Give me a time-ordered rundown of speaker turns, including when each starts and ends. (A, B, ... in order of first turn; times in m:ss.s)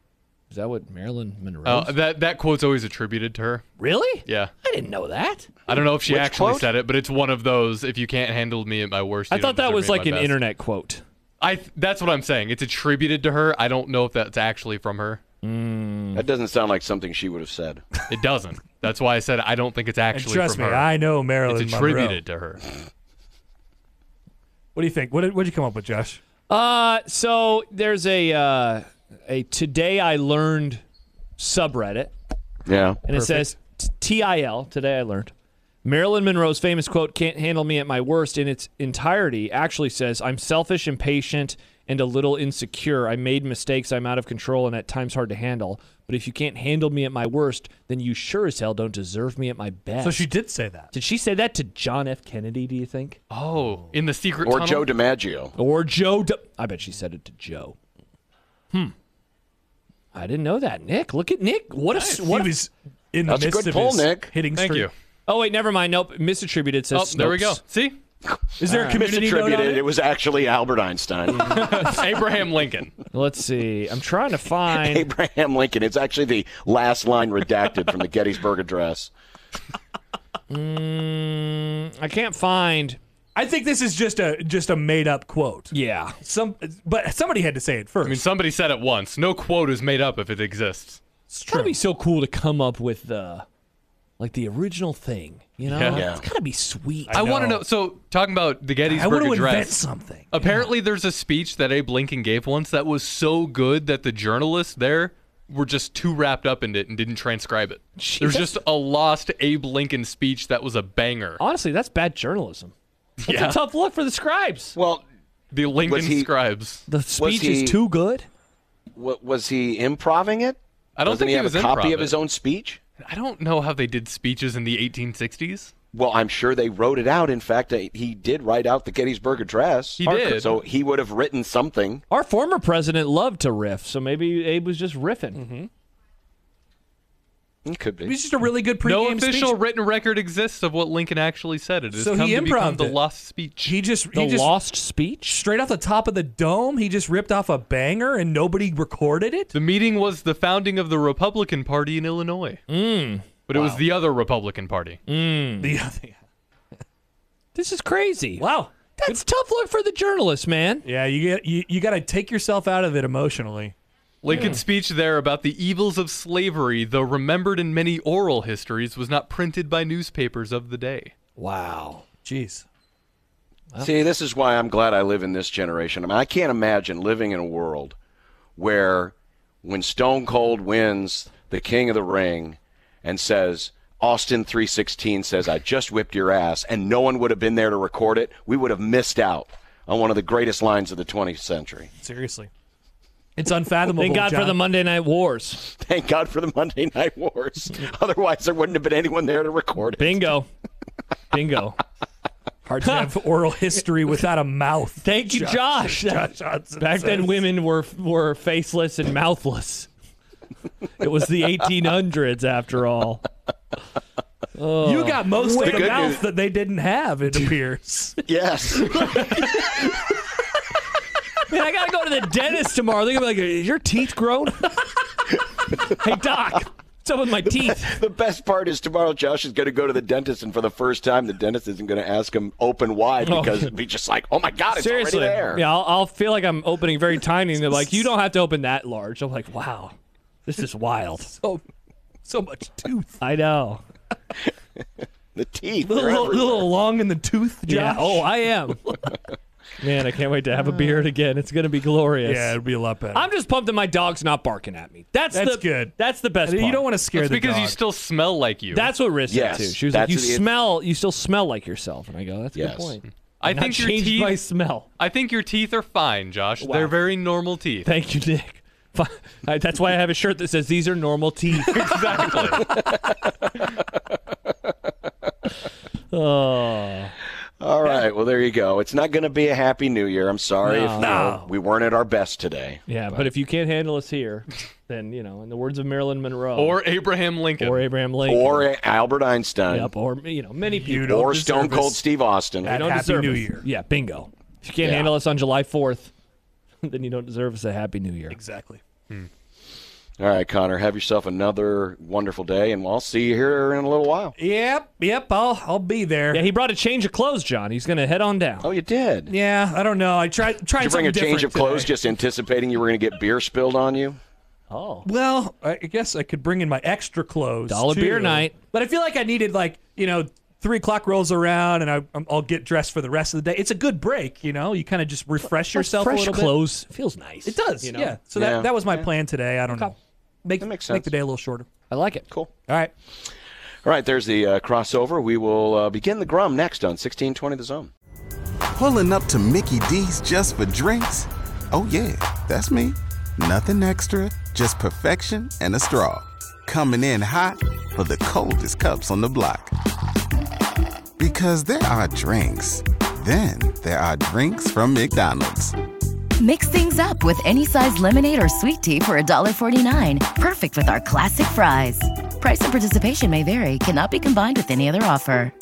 0:00.5-0:01.9 A
0:01.6-0:03.6 B
0:03.8-0:05.5 A
0:04.2-0:04.5 B
0:05.7-0:10.4 B
0:05.7-0:06.7 C
0:09.3-0:11.0 A
0:11.4-0:15.2 B
0:15.4-0:16.2 A
0:16.1-0:17.8 C
0:18.1-0:20.9 B
0:20.1-0:22.2 D
0:21.4-0:22.6 B
0:24.7-0:26.2 D
0:26.5-0:30.8 A
0:31.4-0:32.1 A
0:32.6-0:33.0 C
0:33.0-0:35.3 A
0:35.8-0:50.3 A
0:50.0-0:50.9 D
0:50.9-0:53.2 A
0:53.3-0:54.9 B
0:54.4-0:55.5 C
0:55.5-0:57.8 A
1:00.1-1:02.5 A
1:01.9-1:04.9 D
1:03.3-1:04.3 C
1:04.5-1:04.9 B
1:05.3-1:07.6 A
1:06.9-1:08.0 B
1:08.2-1:12.0 C
1:08.6-1:09.9 D
1:08.6-1:09.0 A
1:11.4-1:13.0 B
1:13.1-1:15.1 A
1:14.7-1:19.1 C
1:20.5-1:23.0 A
1:23.3-1:28.2 D
1:25.7-1:26.2 A
1:28.0-1:31.0 B
1:31.3-1:31.8 D
1:31.5-1:33.4 A
1:34.2-1:37.3 A
1:35.7-1:36.1 B
1:35.9-1:36.2 C
1:37.1-1:37.6 D
1:37.1-1:51.4 B
1:38.8-1:40.7 D
1:48.0-1:48.6 A
1:51.4-1:52.7 A
1:53.2-1:53.6 B
1:53.2-1:54.8 A
1:54.7-1:55.0 C
1:55.5-1:56.8 B
1:55.8-1:56.3 C
1:56.9-1:58.3 A
1:57.2-1:57.8 C
1:59.0-2:02.8 C
2:01.0-2:02.2 B
2:03.0-2:05.7 B
2:05.9-2:12.0 C
2:10.0-2:10.5 B
2:10.0-2:10.6 A
2:12.1-2:15.4 A
2:15.3-2:15.7 D
2:17.6-2:18.2 C
2:18.0-2:19.6 D
2:18.8-2:23.7 B
2:21.9-2:23.0 D
2:23.6-2:24.5 D
2:24.1-2:25.4 A
2:25.3-2:29.5 D
2:29.5-2:32.6 B
2:32.7-2:33.3 A
2:33.5-2:35.0 B
2:35.1-2:35.8 A
2:35.6-2:36.2 D
2:37.5-2:38.5 A
2:38.4-2:39.2 D
2:39.0-2:40.8 A
2:40.8-2:43.7 D
2:44.2-2:51.1 B
2:44.3-2:44.6 A
2:51.4-2:52.0 A
2:52.2-2:52.6 D
2:53.8-2:58.0 C
2:58.6-3:11.9 C
3:12.0-3:12.5 D
3:13.4-3:14.6 D
3:14.0-3:15.7 A
3:15.7-3:20.3 C
3:20.0-3:20.5 A
3:21.3-3:21.8 A
3:22.7-3:23.2 A
3:22.7-3:27.4 D
3:25.0-3:29.9 A
3:31.0-3:33.2 A
3:34.5-3:36.1 A
3:34.8-3:38.2 D
3:35.6-3:36.2 C
3:38.2-3:39.4 C
3:39.1-3:39.8 D
3:41.5-3:44.8 A
3:45.8-3:48.0 A
3:47.5-3:55.6 C
3:53.2-3:53.7 A
3:54.7-3:59.9 A
4:00.4-4:01.4 A
4:02.2-4:03.2 D
4:03.2-4:03.8 A
4:05.3-4:06.7 C
4:05.8-4:08.5 D
4:07.6-4:09.0 A
4:09.8-4:12.6 A
4:12.2-4:13.2 D
4:13.1-4:16.9 A
4:15.3-4:17.8 D
4:17.1-4:18.9 B
4:18.7-4:24.9 A
4:19.3-4:20.5 C
4:22.5-4:23.0 C
4:23.4-4:27.9 B
4:26.6-4:27.0 A
4:27.8-4:31.9 A
4:31.7-4:32.7 B
4:36.1-4:37.1 A
4:37.6-4:42.8 C
4:40.6-4:41.4 A
4:41.0-4:41.5 D
4:42.9-4:46.8 A
4:46.6-4:47.9 B
4:47.6-4:48.7 A
4:48.2-4:49.9 C
4:49.7-4:51.3 A
4:50.8-4:52.0 D
4:51.0-4:52.7 C
4:52.6-4:53.7 D
4:52.6-4:56.1 A
4:54.8-4:55.1 C
4:56.8-4:58.4 A
4:58.3-4:58.8 D
5:00.2-5:04.3 C
5:04.4-5:06.5 D
5:06.3-5:08.7 A
5:08.6-5:09.3 C
5:09.3-5:11.9 D
5:10.7-5:14.2 C
5:14.7-5:15.1 A
5:15.0-5:26.6 D
5:17.7-5:18.6 A
5:25.6-5:28.2 A
5:27.4-5:31.7 D
5:28.3-5:29.1 C
5:29.7-5:30.0 A
5:30.6-5:31.1 C
5:31.9-5:32.2 A
5:32.7-5:32.9 D
5:33.8-5:37.9 C
5:38.7-5:49.7 E
5:51.2-5:55.7 E
5:56.4-6:05.5 F